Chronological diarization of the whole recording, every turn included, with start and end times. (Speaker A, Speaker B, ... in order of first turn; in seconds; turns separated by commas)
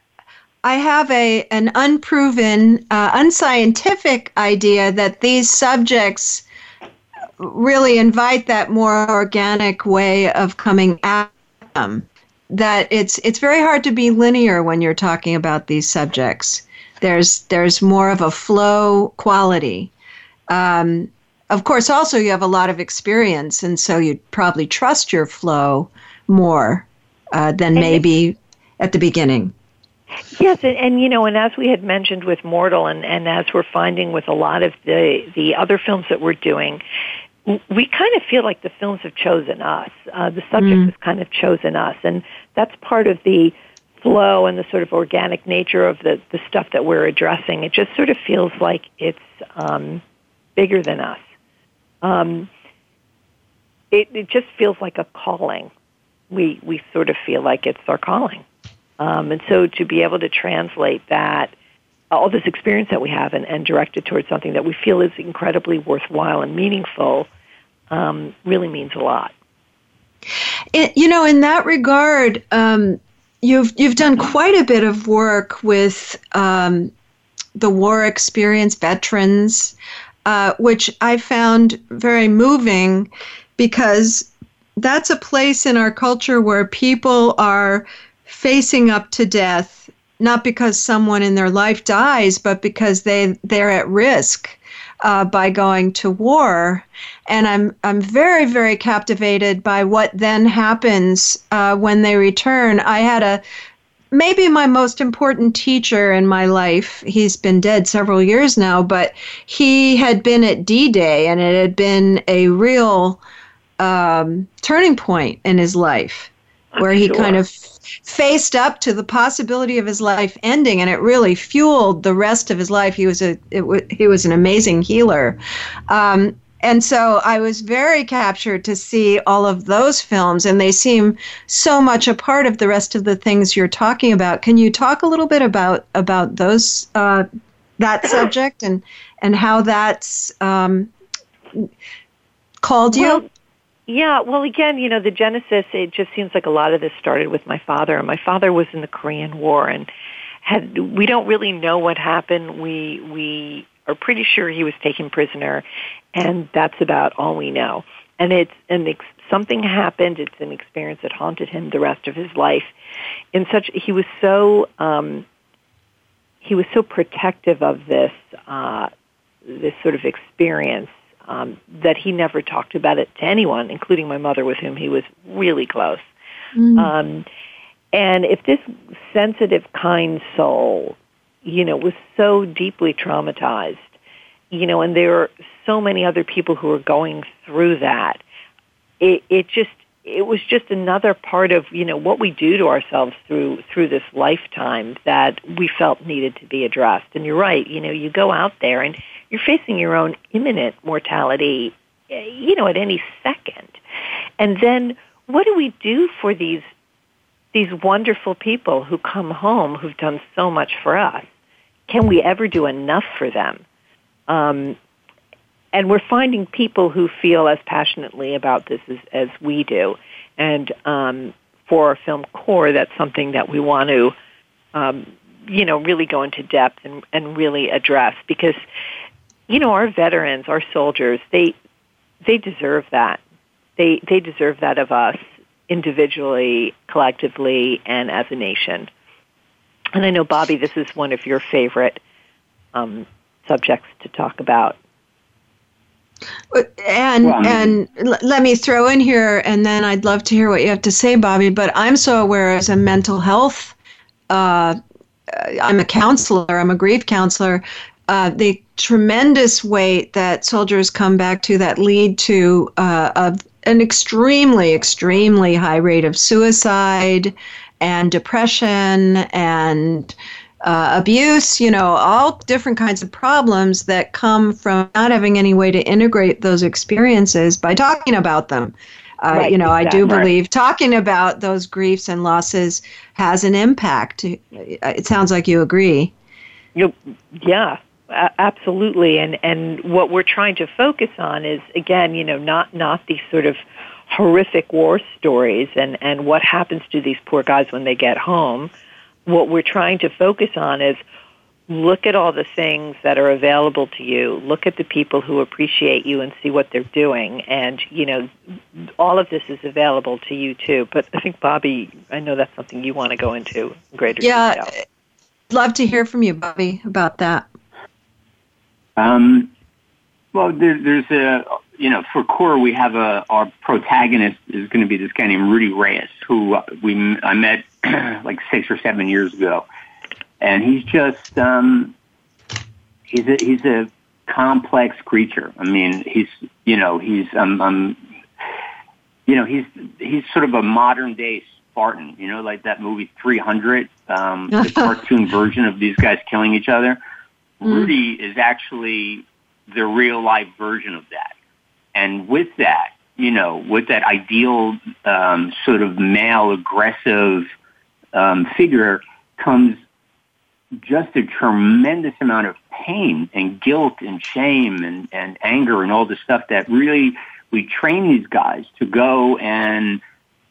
Speaker A: 0.6-6.4, Speaker A: 7.4-19.9, Speaker A: 20.5-29.5, Speaker B: 27.8-28.0, Speaker B: 30.4-36.8, Speaker B: 37.5-50.0, Speaker A: 40.6-40.9, Speaker B: 50.6-51.3, Speaker B: 52.0-52.5, Speaker B: 53.9-55.7, Speaker B: 56.3-58.5, Speaker B: 59.0-61.5, Speaker B: 62.1-67.3, Speaker B: 67.9-69.3, Speaker A: 70.7-76.9, Speaker A: 77.6-79.7, Speaker A: 80.3-103.4, Speaker A: 104.1-113.2, Speaker A: 113.8-125.4, Speaker A: 125.9-137.3, Speaker A: 137.8-140.9, Speaker A: 142.6-143.2, Speaker B: 142.9-143.3, Speaker B: 143.9-149.9, Speaker B: 150.4-162.7, Speaker B: 163.3-165.2, Speaker B: 166.4-168.9, Speaker B: 169.5-176.1, Speaker A: 176.6-176.9, Speaker B: 176.8-177.2, Speaker B: 177.9-183.9, Speaker B: 184.5-188.2, Speaker B: 189.0-203.8, Speaker B: 204.4-206.7, Speaker B: 207.5-211.3, Speaker B: 211.9-213.6, Speaker B: 214.3-214.8, Speaker B: 215.7-224.2, Speaker B: 224.7-228.6, Speaker B: 229.5-231.6, Speaker B: 232.2-233.2, Speaker B: 233.8-238.9, Speaker B: 240.0-242.0, Speaker B: 242.7-244.8, Speaker A: 246.5-253.7, Speaker C: 247.2-247.8, Speaker A: 254.3-254.8, Speaker A: 255.3-286.1, Speaker B: 279.3-280.1, Speaker B: 286.8-298.7, Speaker B: 299.3-301.0, Speaker B: 301.7-308.3, Speaker B: 309.0-314.7, Speaker A: 314.2-314.8, Speaker A: 315.5-317.5, Speaker C: 319.0-319.5, Speaker C: 320.3-329.7, Speaker C: 330.4-331.9, Speaker C: 333.1-338.0, Speaker C: 339.3-347.0, Speaker A: 344.6-344.9, Speaker C: 347.6-351.3, Speaker C: 351.9-357.5, Speaker C: 358.1-359.8, Speaker C: 360.8-370.0